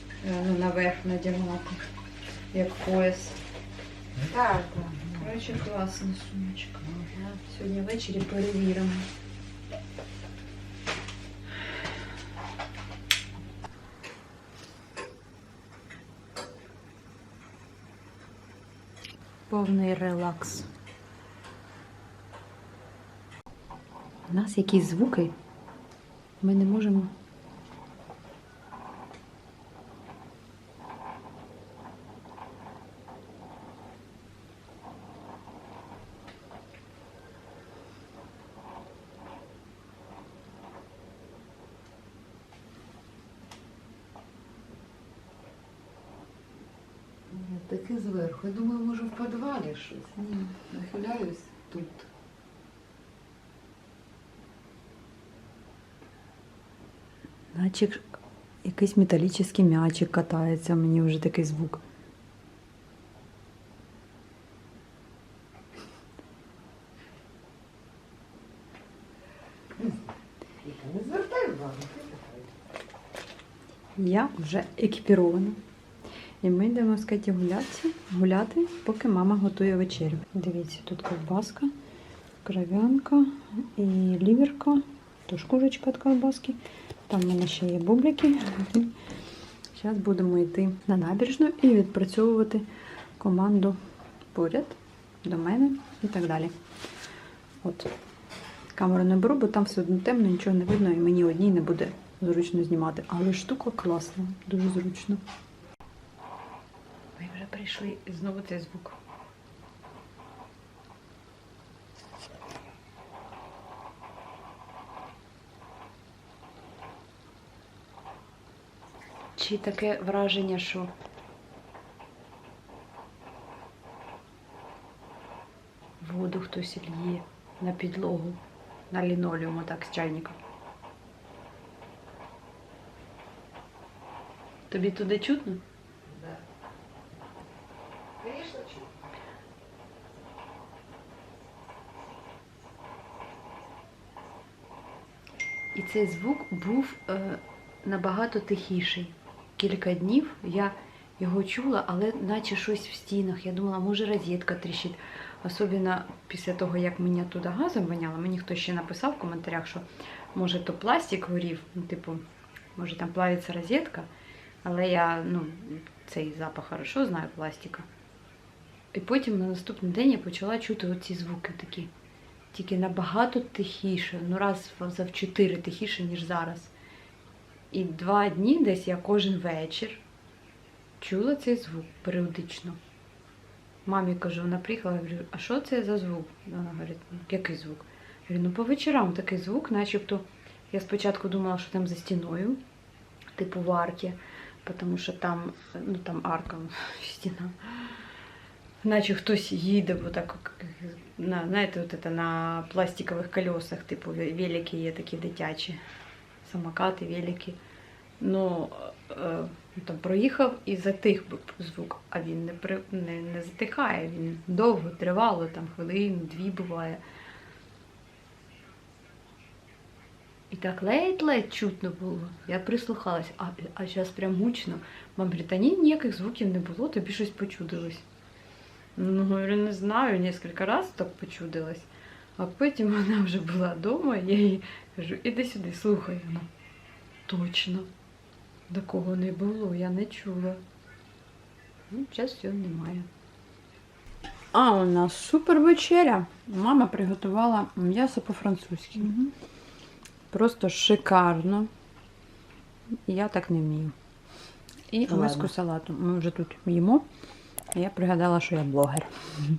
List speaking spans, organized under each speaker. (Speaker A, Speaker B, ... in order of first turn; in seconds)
Speaker A: 0.2-1.8, 2.5-3.4, 5.2-6.8, 7.5-9.1, 19.5-20.7, 24.3-25.3, 26.4-27.1, 57.5-58.0, 58.6-61.8, 74.0-75.6, 76.4-81.7, 82.4-88.9, 89.7-92.7, 93.2-93.8, 94.3-96.5, 97.6-97.9, 98.8-105.2, 107.2-109.0, 119.4-120.9, 126.0-128.4, 128.9-130.4, 134.7-135.6, 145.7-162.2, 162.8-164.1, 164.6-167.9, 168.9-171.9, 172.5-176.7, 177.7-180.0, 181.0-182.8, 183.9-192.6, 193.4-197.9, 198.8-205.8, 206.4-207.6, 208.2-217.0, 220.5-228.0, 229.0-236.5, 237.3-237.9, 238.7-240.6, 241.9-243.1, 244.5-249.1, 250.3-251.7, 253.1-253.9, 254.9-257.1, 257.7-259.1
Speaker B: 4.2-5.6, 6.8-7.4, 47.3-52.1, 70.6-72.5, 136.1-136.4, 138.2-139.0, 255.1-255.5